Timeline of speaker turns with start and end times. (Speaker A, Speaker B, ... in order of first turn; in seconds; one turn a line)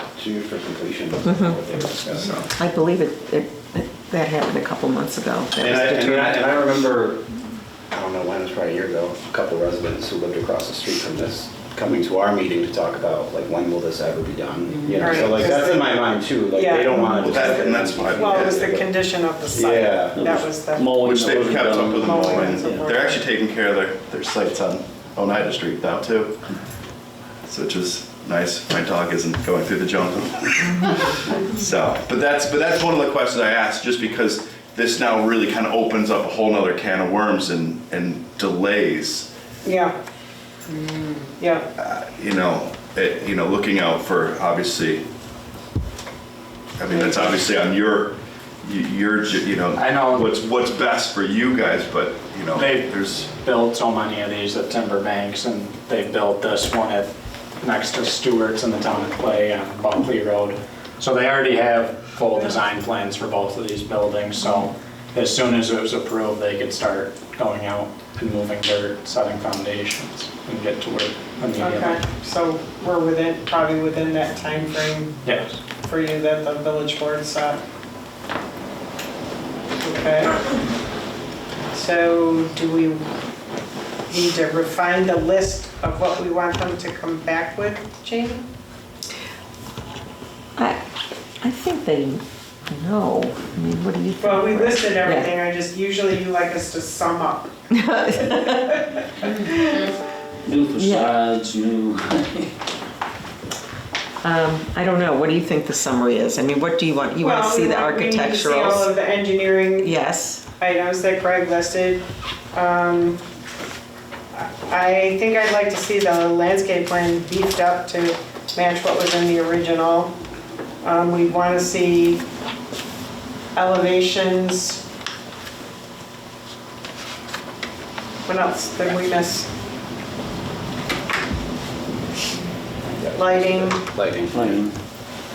Speaker A: 0.1-2.5
Speaker B: 1.2-1.6
Speaker B: 2.5-6.4
Speaker A: 5.6-7.2
Speaker A: 7.9-18.9
Speaker C: 14.9-23.2
Speaker D: 17.2-18.7
Speaker E: 19.5-22.9
Speaker A: 19.6-20.1
Speaker D: 20.9-26.4
Speaker D: 27.4-39.3
Speaker C: 39.6-40.0
Speaker C: 40.7-41.7
Speaker D: 41.8-45.0
Speaker D: 46.8-53.2
Speaker C: 46.9-47.3
Speaker F: 49.7-50.3
Speaker F: 52.5-72.0
Speaker C: 71.5-75.3
Speaker F: 75.2-75.6
Speaker C: 75.8-77.6
Speaker C: 79.8-80.3
Speaker C: 81.7-83.0
Speaker C: 84.1-88.5
Speaker B: 91.4-95.3
Speaker C: 94.2-99.9
Speaker B: 97.7-98.8
Speaker E: 100.4-102.5
Speaker B: 100.8-101.1
Speaker B: 104.2-108.9
Speaker C: 107.2-110.0
Speaker B: 109.8-110.4
Speaker C: 110.6-112.0
Speaker C: 112.5-113.2
Speaker C: 114.3-120.1
Speaker C: 120.8-122.2
Speaker C: 123.5-124.8
Speaker C: 128.3-129.5
Speaker A: 132.9-134.6
Speaker C: 133.1-133.8
Speaker E: 134.3-134.7